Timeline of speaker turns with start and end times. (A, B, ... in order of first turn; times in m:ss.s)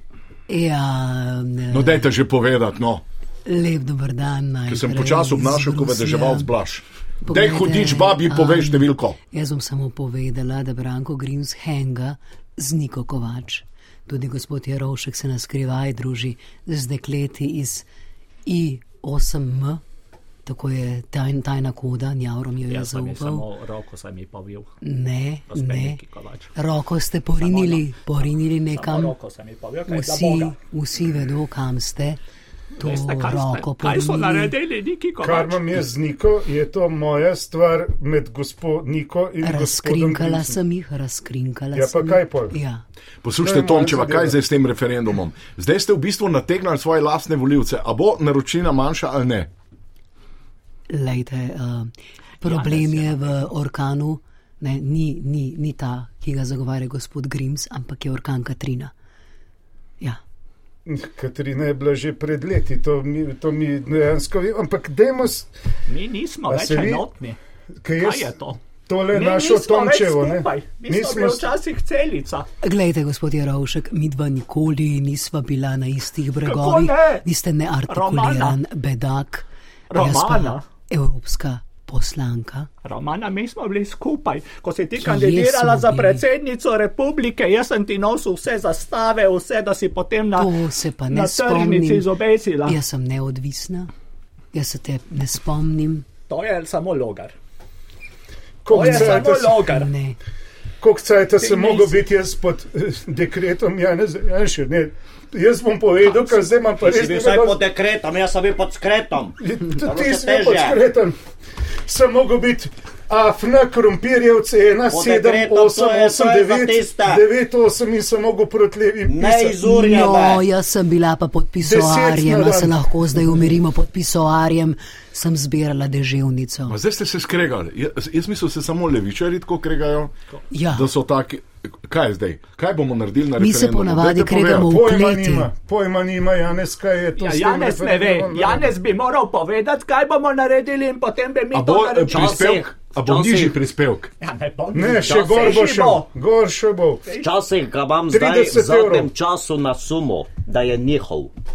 0:00.5-0:02.1 A
0:01.7-0:03.0 B
0:03.4-0:06.5 A
0:04.7-0:09.2 B
0:07.2-0:17.8 A
0:18.4-0:19.8 A
0:20.4-0:23.4 A
0:22.7-0:24.7 C
0:24.8-0:26.0 A
0:25.5-0:26.5 C
0:26.6-0:29.1 A
0:27.4-0:27.9 C
0:28.7-0:30.6 C
0:29.9-0:32.2 A
0:32.8-0:34.5 A
0:32.8-0:35.7 C
0:35.2-0:40.6 D
0:39.4-0:42.8 A
0:41.7-0:42.5 D
0:43.2-0:49.5 B
0:43.4-0:44.3 D
0:50.9-0:58.9 A
0:52.4-0:53.4 C
1:00.8-1:05.5 D
1:05.9-1:07.4 C
1:06.5-1:07.1 D
1:07.8-1:11.5 D
1:07.9-1:08.6 C
1:09.1-1:12.5 C
1:12.6-1:22.7 A
1:16.4-1:17.2 C
1:17.9-1:18.6 C
1:19.9-1:20.6 C
1:22.8-1:30.5 C
1:25.0-1:26.2 A
1:30.3-1:32.1 A
1:31.1-1:32.8 C
1:32.6-1:33.9 A
1:34.5-1:36.0 A
1:36.3-1:37.3 C
1:38.6-1:39.6 D
1:38.7-1:39.9 C
1:38.8-1:40.2 A
1:40.8-1:47.6 D
1:41.4-1:42.0 C
1:46.8-1:50.8 E
1:49.4-1:51.2 D
1:51.8-1:59.6 D
1:54.9-1:57.2 E
1:59.0-2:00.4 E
1:59.6-2:06.8 A
2:01.6-2:03.4 D
2:06.7-2:10.1 B
2:10.5-2:10.9 A
2:10.7-2:14.7 B
2:13.4-2:15.5 A
2:14.6-2:18.8 D
2:17.2-2:22.5 C
2:21.5-2:24.1 B
2:22.1-2:23.6 E
2:24.2-2:26.1 C
2:24.7-2:27.0 D
2:25.1-2:25.7 E
2:27.1-2:31.3 E
2:28.1-2:29.1 D